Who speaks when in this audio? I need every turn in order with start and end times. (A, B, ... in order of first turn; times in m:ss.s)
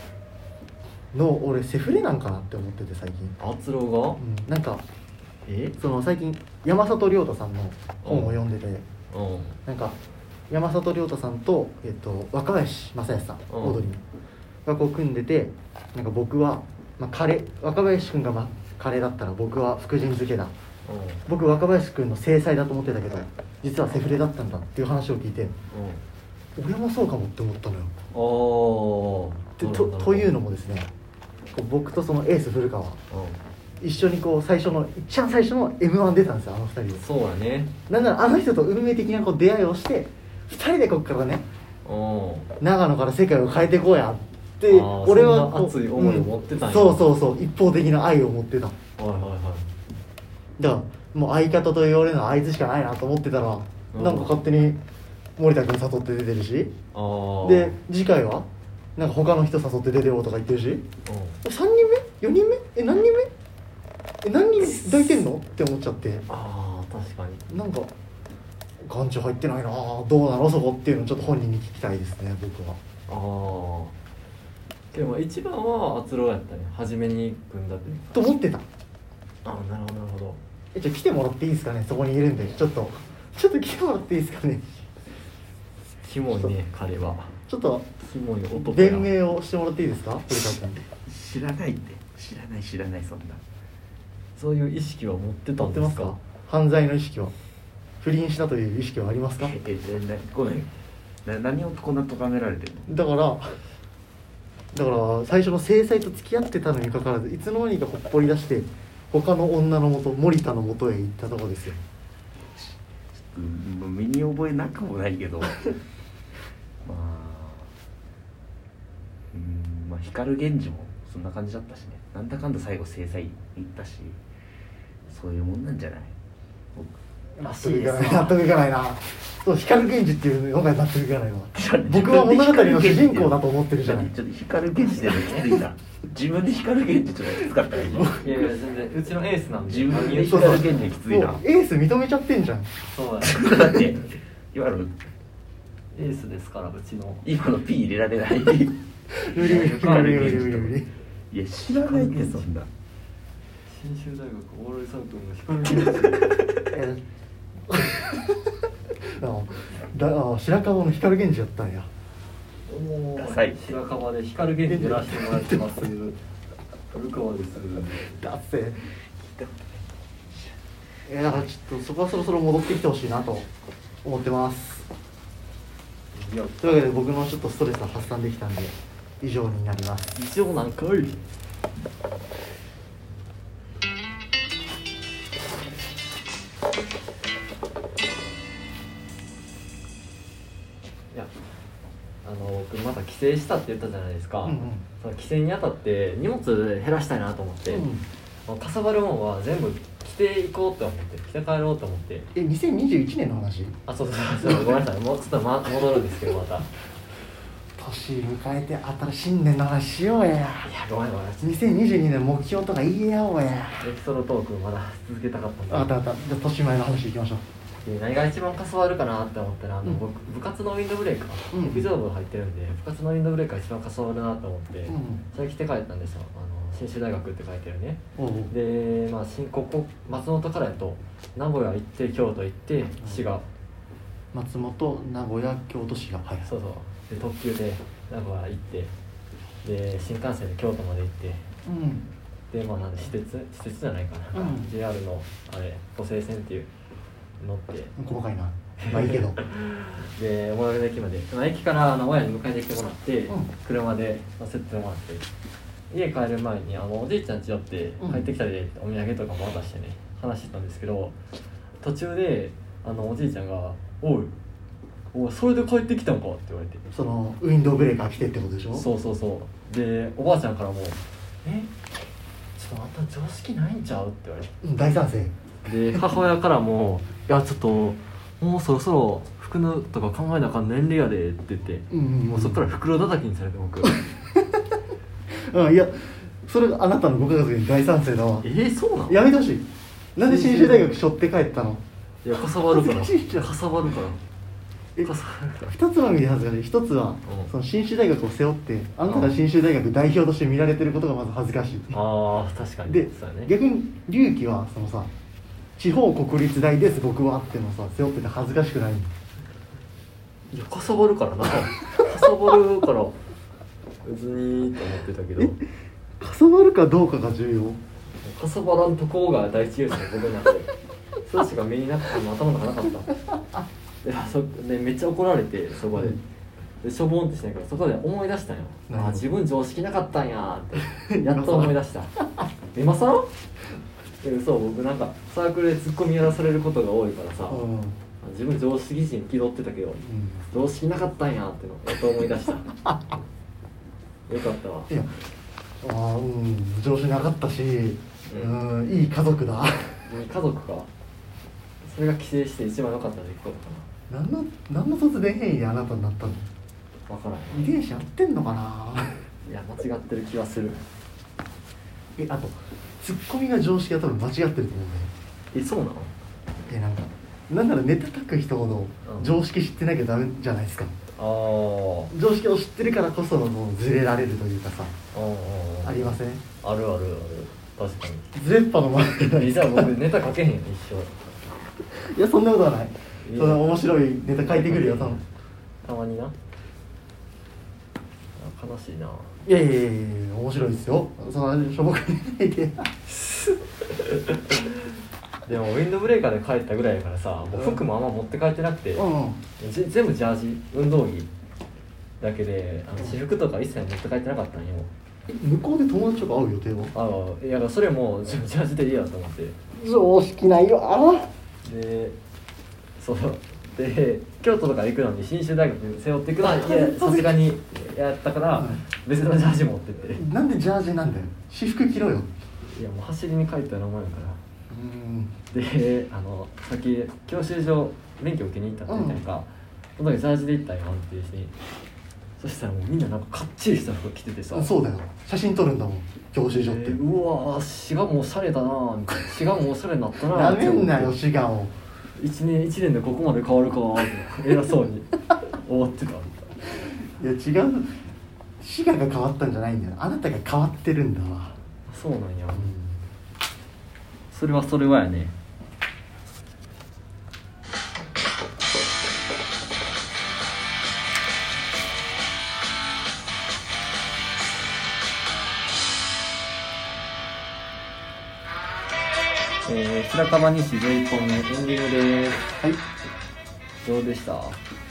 0:01.1-0:03.4 A
0:03.4-0:04.2 B
0:04.2-0:04.8 A
0:05.4-0:05.8 B
0:05.8-0:08.8 A
0:08.0-0:08.4 B
0:09.1-0:09.6 B
0:09.6-0:10.0 A
0:10.5-0:14.0 A
0:13.5-0:13.8 B
0:14.6-0:20.5 A
0:20.8-0:21.2 B
0:21.3-0:25.5 A
0:25.7-0:26.0 B
0:26.6-0:27.9 A
0:28.1-0:30.3 B
0:29.6-0:30.9 A
0:31.5-0:33.0 A
0:33.1-0:33.4 B
0:33.8-0:37.0 A
0:37.0-0:37.7 B
0:37.9-0:41.4 A
0:41.8-0:42.5 B
0:42.6-0:48.8 A
0:44.7-0:47.1 B
0:49.0-0:49.7 B
0:50.6-0:54.8 A
0:53.9-0:54.4 B
0:55.4-0:56.7 A
0:56.9-0:57.8 B
0:57.4-1:00.8 A
1:01.0-1:01.4 B
1:01.4-1:03.3 A
1:04.2-1:06.3 A
1:04.6-1:04.9 B
1:06.3-1:07.5 B
1:07.5-1:07.9 A
1:08.8-1:12.8 A
1:13.1-1:13.9 B
1:14.9-1:18.1 B
1:18.0-1:18.6 A
1:19.4-1:20.4 B
1:20.7-1:24.8 A
1:26.0-1:27.3 B
1:27.5-1:27.8 A
1:28.0-1:29.1 B
1:28.5-1:30.9 A
1:31.0-1:33.4 C
1:34.4-1:36.2 B
1:35.6-1:37.3 A
1:38.0-1:39.6 A
1:39.4-1:40.7 C
1:41.2-1:42.9 C
1:42.8-1:43.6 A
1:44.7-1:51.8 A
1:53.3-1:55.8 C
1:56.8-1:57.7 C
1:59.3-2:04.2 C
2:05.1-2:06.1 C
2:07.4-2:14.1 A
2:07.4-2:08.4 B
2:11.5-2:18.2 C
2:14.8-2:15.6 B
2:17.9-2:18.3 A
2:18.2-2:20.9 B
2:19.7-2:21.4 C
2:20.1-2:22.7 A
2:22.9-2:23.4 B
2:23.2-2:24.9 C
2:25.9-2:27.2 B
2:27.2-2:28.7 C
2:29.1-2:30.9 A
2:29.3-2:30.6 B
2:29.4-2:30.7 C
2:31.3-2:32.7 C
2:31.6-2:32.4 A
2:33.7-2:36.3 B
2:36.7-2:37.0 A
2:37.7-2:38.5 A
2:39.2-2:41.9 A
2:42.7-2:46.2 B
2:43.2-2:43.7 C
2:44.6-2:45.7 A
2:46.9-2:48.1 B
2:48.0-2:48.8 A
2:51.1-2:53.5 A
2:54.0-2:54.9 A
2:56.1-2:56.9 B
2:56.6-3:00.2 A
3:00.1-3:01.2 B
3:12.2-3:17.9 B
3:14.4-3:14.9 A
3:17.7-3:18.0 A
3:18.5-3:22.3 B
3:22.3-3:23.8 A
3:23.9-3:26.7 B
3:27.8-3:30.7 A
3:30.6-3:31.6 B
3:31.4-3:33.8 A
3:33.8-3:35.9 B
3:35.7-3:37.4 A
3:37.8-3:53.4 B
3:41.5-3:41.9 A
3:44.9-3:45.2 A
3:48.2-3:48.5 A
3:53.0-3:53.2 A
3:54.3-3:56.5 A
3:56.4-3:58.9 B
3:59.6-4:01.4 B
4:01.6-4:02.1 A
4:02.5-4:06.7 B
4:04.3-4:04.7 A
4:07.4-4:07.9 B
4:08.0-4:09.4 A
4:08.8-4:15.2 B
4:15.9-4:21.1 B
4:18.0-4:18.3 A
4:21.8-4:24.3 B
4:25.1-4:26.8 B
4:26.9-4:28.8 A
4:28.7-4:31.7 B
4:32.6-4:34.5 B
4:34.6-4:35.3 A
4:35.6-4:44.0 B
4:41.9-4:42.6 A
4:43.8-4:44.4 A
4:45.5-4:48.5 A
4:48.4-4:49.2 B
4:49.1-4:51.8 A
4:50.2-4:50.9 B
4:52.2-4:54.2 B
4:52.7-4:53.5 A
4:55.0-4:55.7 B
4:55.6-5:02.0 A
4:57.2-4:57.5 B
4:59.0-4:59.4 B
5:01.9-5:03.5 B
5:02.9-5:05.1 A
5:05.8-5:09.1 A
5:10.5-5:13.2 B
5:14.0-5:15.6 B
5:16.2-5:17.8 A
5:18.2-5:20.7 B
5:21.2-5:23.2 B
5:24.0-5:26.2 B
5:25.9-5:26.2 A
5:26.8-5:32.1 B
5:28.9-5:29.3 A
5:30.9-5:31.8 A
5:32.7-5:33.3 B
5:34.2-5:37.6 B
5:37.5-5:38.0 A
5:38.2-5:42.7 B
5:40.0-5:40.5 A
5:44.3-5:44.9 B
5:44.9-5:45.2 A
5:45.8-5:50.1 A
5:48.3-5:48.6 B
5:50.0-5:50.9 B
5:51.8-5:53.8 B
5:54.1-5:56.5 A
5:57.1-5:57.7 B
5:57.5-5:59.2 A
5:59.4-6:00.8 B
6:02.2-6:05.1 A
6:05.5-6:06.1 B
6:06.7-6:10.9 A
6:09.0-6:09.4 B
6:11.2-6:12.1 B
6:12.1-6:14.9 A
6:15.1-6:18.2 B
6:15.8-6:16.4 A
6:18.3-6:19.9 A
6:19.2-6:21.2 B
6:21.9-6:25.2 A
6:23.2-6:23.6 B
6:24.5-6:25.2 B
6:25.8-6:26.3 B
6:28.4-6:29.4 B
6:29.4-6:32.9 A
6:35.4-6:39.1 B
6:37.5-6:37.8 A
6:38.9-6:39.4 A
6:39.6-6:41.3 B
6:42.2-6:44.9 B
6:45.3-6:46.9 A
6:46.9-6:49.6 B
6:49.7-6:51.3 A
6:51.6-6:52.2 B
6:53.0-7:00.2 B
6:56.4-6:57.4 A
6:58.5-6:58.8 A
7:00.1-7:02.3 A
7:02.6-7:04.4 B
7:04.7-7:05.3 A
7:05.5-7:11.5 B
7:08.9-7:09.2 A
7:12.4-7:14.7 B
7:14.5-7:17.0 A
7:16.6-7:21.2 B
7:20.3-7:21.7 A
7:22.2-7:26.5 B
7:26.8-7:28.0 A
7:28.6-7:31.6 A
7:31.9-7:32.7 B
7:32.5-7:33.0 A
7:34.3-7:35.3 B
7:49.6-7:52.5 B
7:53.8-7:54.6 B